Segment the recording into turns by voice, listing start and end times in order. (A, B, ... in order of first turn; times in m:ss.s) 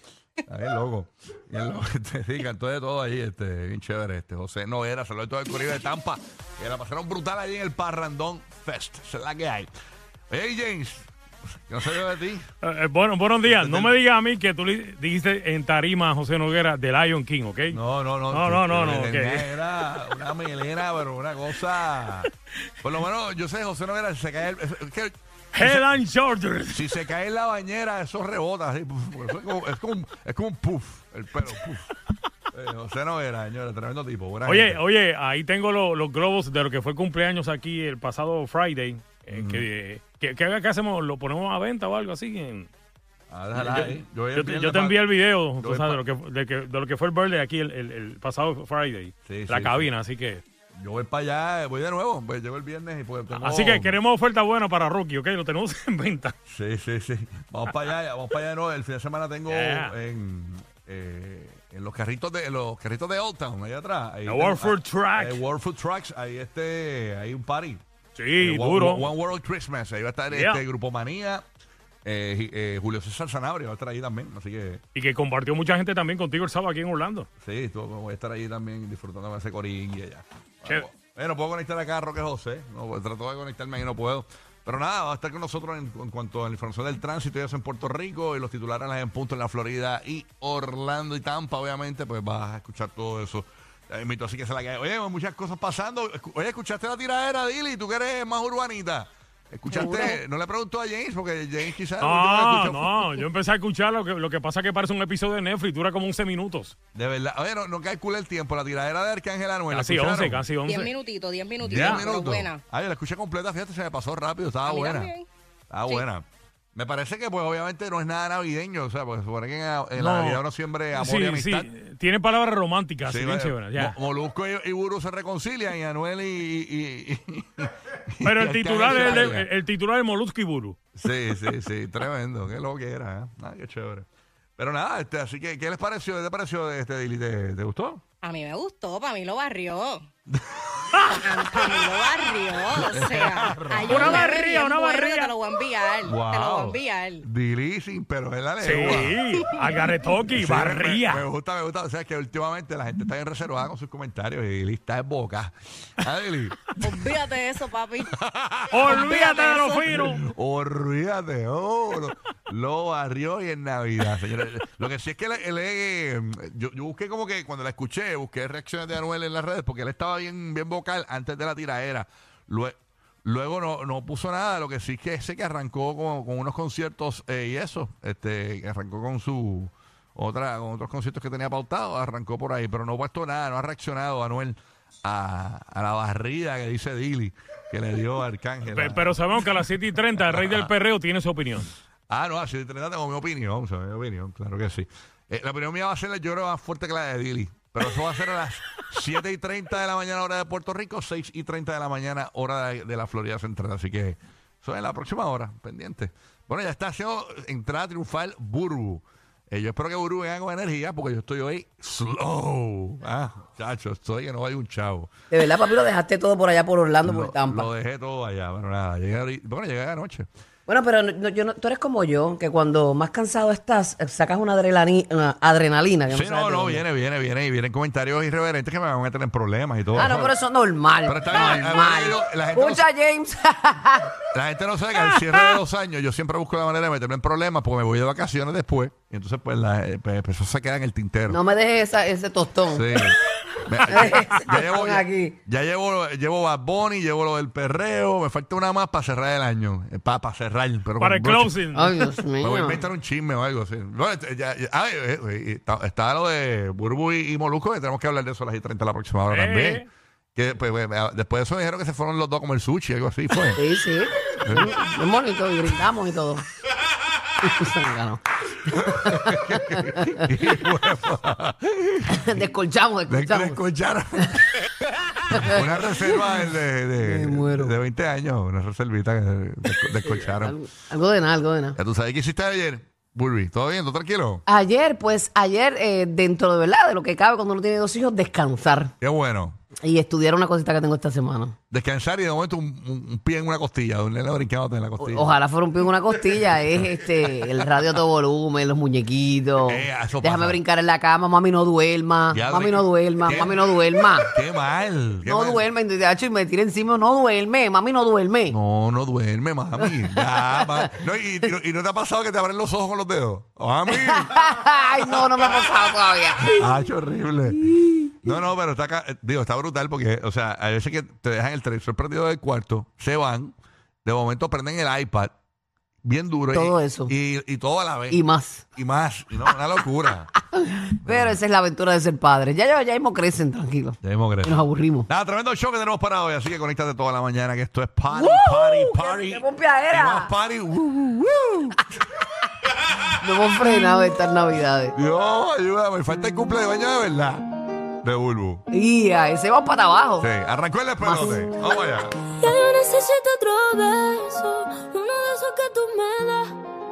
0:00.4-0:09.7 A
0:10.3-0:11.1 A
0:11.7-0:12.5 A
0:12.6-0:17.8 B
0:13.4-0:13.9 A
0:17.7-0:22.3 A
0:18.3-0:19.5 B
0:22.8-0:25.9 A
0:25.5-0:26.9 B
0:26.7-0:31.9 A
0:32.5-0:34.8 A
0:34.5-0:42.7 B
0:39.3-0:39.7 A
0:43.3-0:45.0 A
0:43.6-0:50.4 B
0:45.6-0:46.0 A
0:49.2-0:49.9 A
0:50.8-0:54.0 A
0:53.4-0:56.3 B
0:56.5-1:07.8 A
0:59.5-0:59.9 B
1:04.3-1:05.4 B
1:08.2-1:09.1 B
1:08.4-1:11.4 A
1:10.3-1:10.6 B
1:12.0-1:14.8 A
1:15.0-1:17.3 B
1:17.4-1:43.2 A
1:39.7-1:40.2 C
1:42.0-1:46.8 B
1:46.9-1:50.4 A
1:49.7-1:50.9 B
1:50.6-1:52.6 C
1:51.6-1:55.2 A
1:51.7-1:52.0 B
1:54.7-1:55.3 C
1:55.7-2:01.7 A
2:00.0-2:00.4 B
2:01.0-2:04.0 B
2:03.1-2:09.5 A
2:08.2-2:10.8 B
2:08.9-2:09.3 C
2:11.0-2:14.1 A
2:14.6-2:18.0 A
2:18.2-2:20.1 C
2:20.3-2:20.8 A
2:21.1-2:27.2 C
2:22.8-2:24.3 A
2:23.9-2:25.3 B
2:26.1-2:29.4 A
2:28.6-2:31.2 B
2:29.4-2:29.8 C
2:30.4-2:36.8 A
2:36.8-2:38.2 C
2:38.2-2:39.0 A
2:38.7-2:40.2 B
2:38.9-2:40.0 C
2:39.9-3:09.6 A
3:08.7-3:11.7 B
3:10.2-3:10.7 A
3:12.1-3:35.1 A
3:35.3-3:37.7 D
3:37.0-3:40.3 A
3:40.7-3:46.8 D
3:46.1-3:50.3 A
3:50.0-3:54.2 D
3:51.1-3:52.9 A
3:54.3-4:01.4 A
4:01.3-4:03.0 D
4:02.7-4:11.6 A
4:03.9-4:05.4 D
4:11.0-4:12.1 B
4:11.7-4:12.8 D
4:12.4-4:23.6 A
4:19.3-4:19.9 B
4:23.6-4:26.4 D
4:24.4-4:24.8 A
4:27.4-4:30.3 D
4:28.7-4:32.3 A
4:32.1-4:33.6 D
4:33.1-4:34.7 A
4:35.3-4:40.6 A
4:35.3-4:36.2 D
4:37.0-4:37.8 D
4:39.8-4:41.8 D
4:41.8-4:44.4 A
4:44.5-4:48.9 D
4:49.0-4:49.6 A
4:49.8-4:51.6 D
4:51.7-4:55.4 A
4:55.0-5:04.3 D
4:59.6-5:00.6 A
5:02.3-5:03.6 A
5:04.3-5:05.7 A
5:05.3-5:08.6 D
5:08.5-5:14.5 A
5:09.8-5:11.0 D
5:13.9-5:16.7 D
5:15.1-5:15.7 A
5:16.4-5:17.6 A
5:17.6-5:18.4 D
5:18.2-5:25.3 A
5:26.0-5:28.2 A
5:26.5-5:27.1 D
5:28.1-5:28.6 D
5:28.7-5:30.3 A
5:30.5-5:35.1 D
5:31.0-5:31.4 A
5:34.0-5:41.8 A
5:38.1-5:40.3 D
5:43.2-5:45.0 D
5:45.0-5:47.5 A
5:48.0-5:48.6 A
5:48.7-5:50.3 D
5:50.2-5:52.2 A
5:51.0-5:51.4 D
5:52.3-5:56.6 E